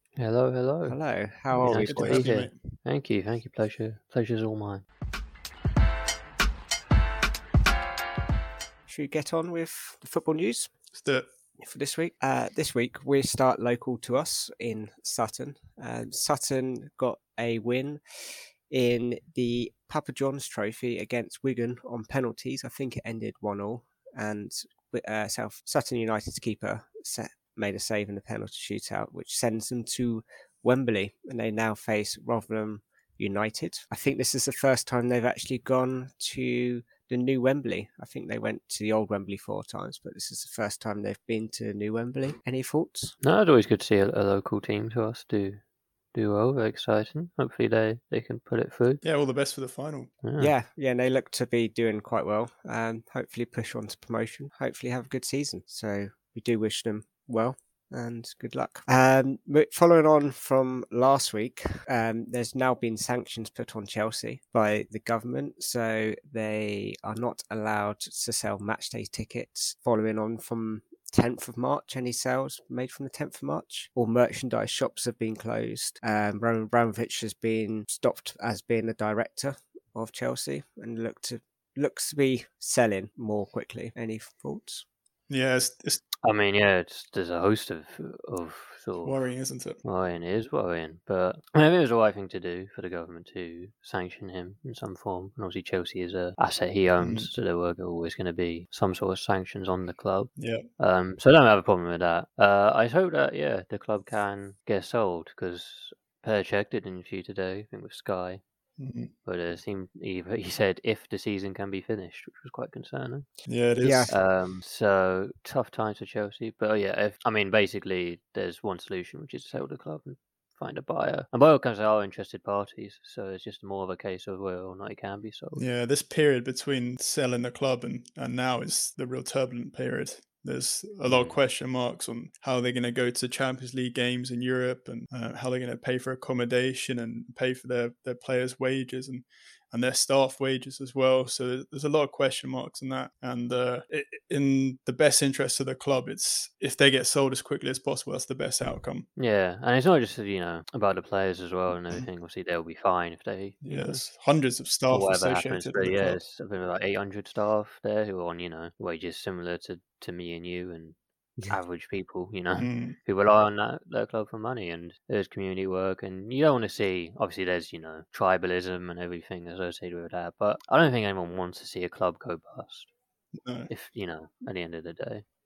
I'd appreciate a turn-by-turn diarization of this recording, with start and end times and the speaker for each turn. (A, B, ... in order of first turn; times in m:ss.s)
0:00.2-0:01.0 A
0:00.9-0:02.3 B
0:01.5-0:02.6 C
0:01.6-0:04.8 A
0:08.9-0:10.7 B
0:10.9-0:11.3 C
0:11.6-0:43.2 B
0:43.2-0:45.6 A
0:46.1-0:49.0 A
0:49.0-0:50.1 C
0:50.2-0:50.5 A
0:50.4-1:24.8 B
1:25.3-1:26.0 C
1:26.2-1:29.2 A
1:29.0-1:29.8 C
1:29.8-1:48.4 A
1:37.0-1:37.3 C
1:40.4-1:40.6 C
1:48.8-1:49.1 C
1:49.2-1:53.3 A
1:53.5-1:54.1 C
1:53.8-1:54.1 B
1:54.1-2:05.6 A
2:05.6-2:29.1 C
2:11.1-2:11.4 A
2:29.2-2:34.0 A
2:33.6-2:36.2 C
2:34.9-2:41.0 A
2:41.5-2:52.9 A
2:42.6-2:43.0 C
2:53.4-2:53.7 C
2:53.7-2:55.2 A